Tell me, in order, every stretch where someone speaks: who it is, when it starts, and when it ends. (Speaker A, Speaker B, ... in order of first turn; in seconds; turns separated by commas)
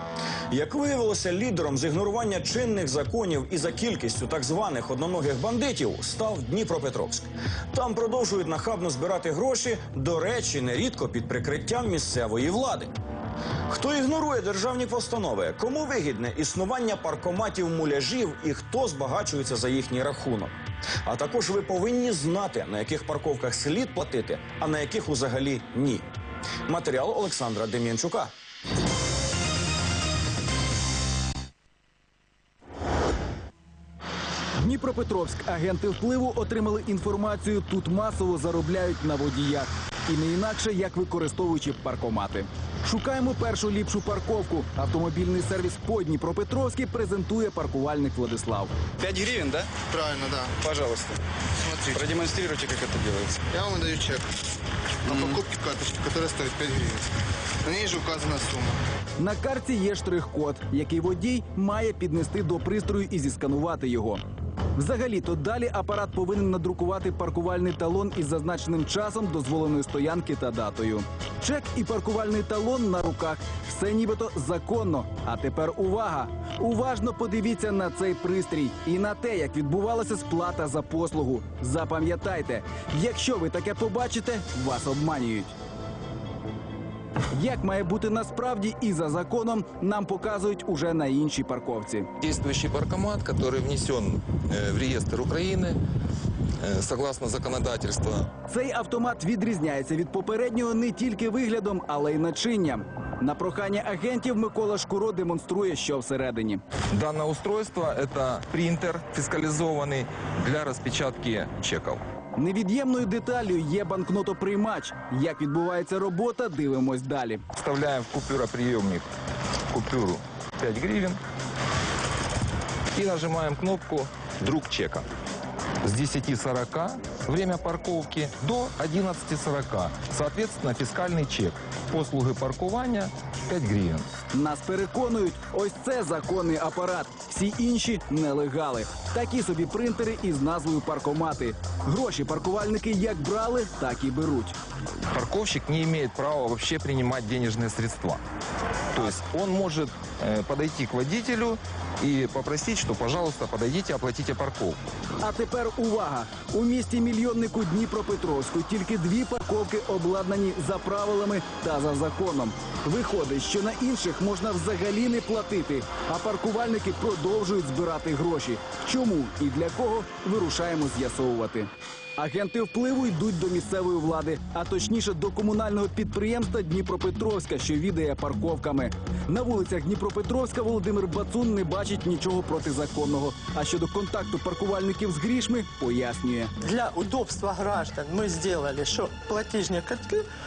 Speaker A: 0.5-12.9, Speaker A: 13.7-20.5, Speaker A: 21.1-26.0, Speaker A: 26.7-28.3, Speaker B: 34.6-48.7, Speaker C: 49.0-49.7, Speaker D: 50.1-50.4, Speaker C: 50.7-51.0, Speaker C: 52.0-53.3, Speaker D: 53.7-54.2, Speaker D: 55.6-57.0, Speaker D: 57.8-58.7, Speaker B: 59.2-64.2, Speaker B: 64.8-85.5, Speaker B: 87.3-92.1, Speaker E: 92.2-95.8, Speaker E: 96.6-98.3, Speaker B: 98.5-106.6, Speaker E: 106.9-112.0, Speaker B: 112.3-117.4, Speaker E: 117.5-119.1, Speaker E: 119.7-121.2, Speaker E: 122.9-125.0, Speaker E: 125.8-134.1, Speaker B: 134.3-144.6, Speaker E: 145.1-148.2, Speaker E: 148.9-154.8, Speaker B: 155.2-186.5, Speaker F: 186.6-190.2